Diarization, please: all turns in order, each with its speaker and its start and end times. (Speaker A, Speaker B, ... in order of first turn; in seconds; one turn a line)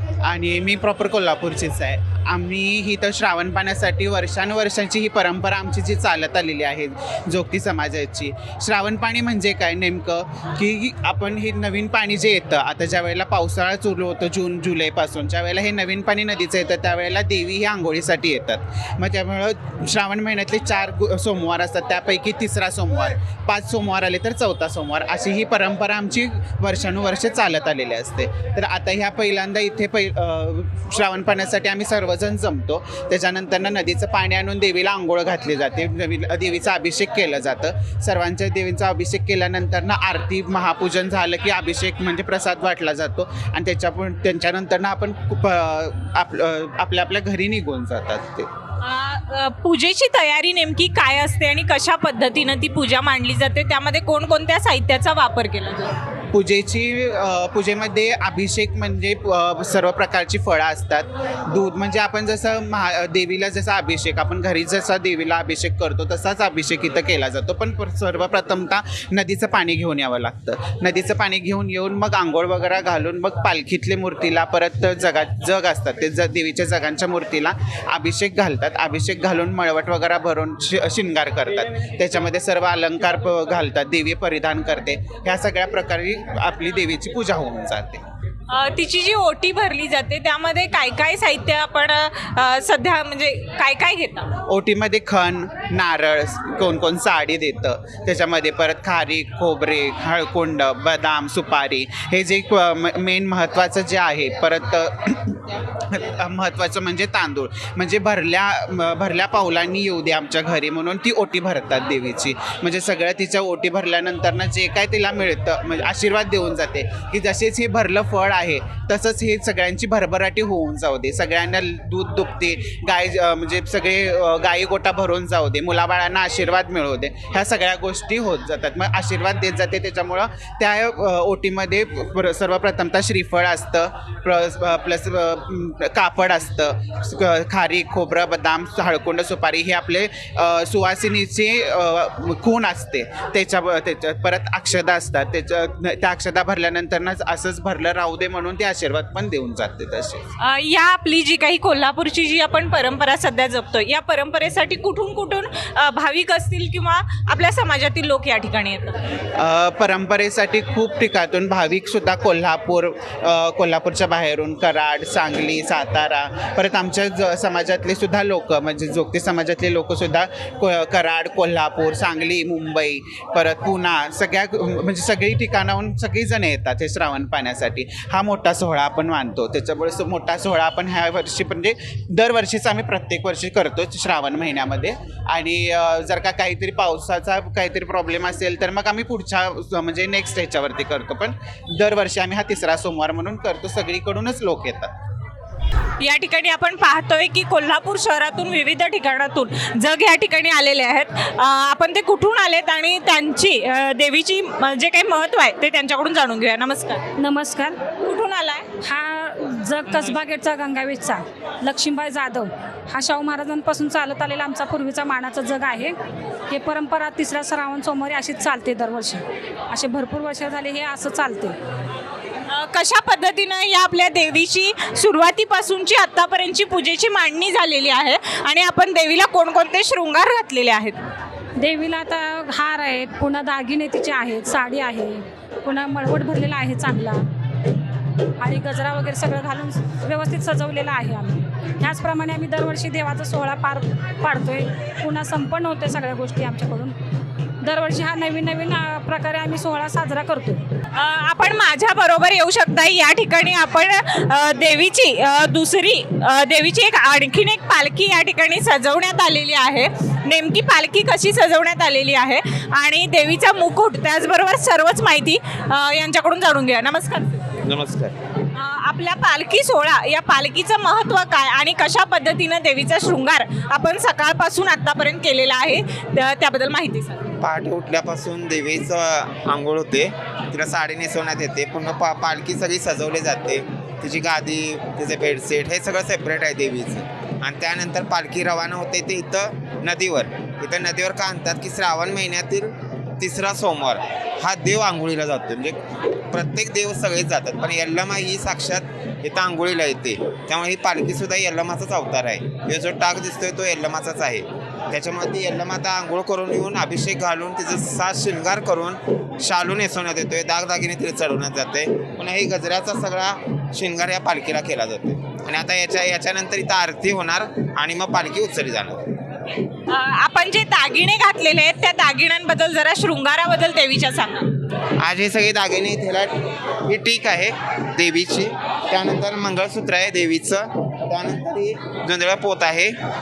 Speaker A: 0.2-48.5
Speaker B: 48.8-55.9
Speaker A: 56.3-88.0
Speaker B: 88.5-94.3
Speaker A: 94.5-150.2
Speaker B: 150.4-159.0
Speaker A: 159.3-194.9
Speaker B: 196.0-207.0
Speaker C: 207.2-207.8
Speaker B: 208.0-208.7
Speaker C: 208.8-215.9
Speaker C: 216.5-221.6
Speaker B: 222.5-231.0
Speaker C: 231.6-237.2
Speaker C: 238.4-246.9
Speaker C: 247.6-250.6
Speaker B: 250.9-267.4
Speaker D: 267.6-268.1
Speaker B: 268.5-277.3
Speaker D: 277.4-295.8
Speaker D: 296.3-319.0
Speaker B: 319.9-324.5
Speaker D: 325.0-326.3
Speaker D: 326.9-332.9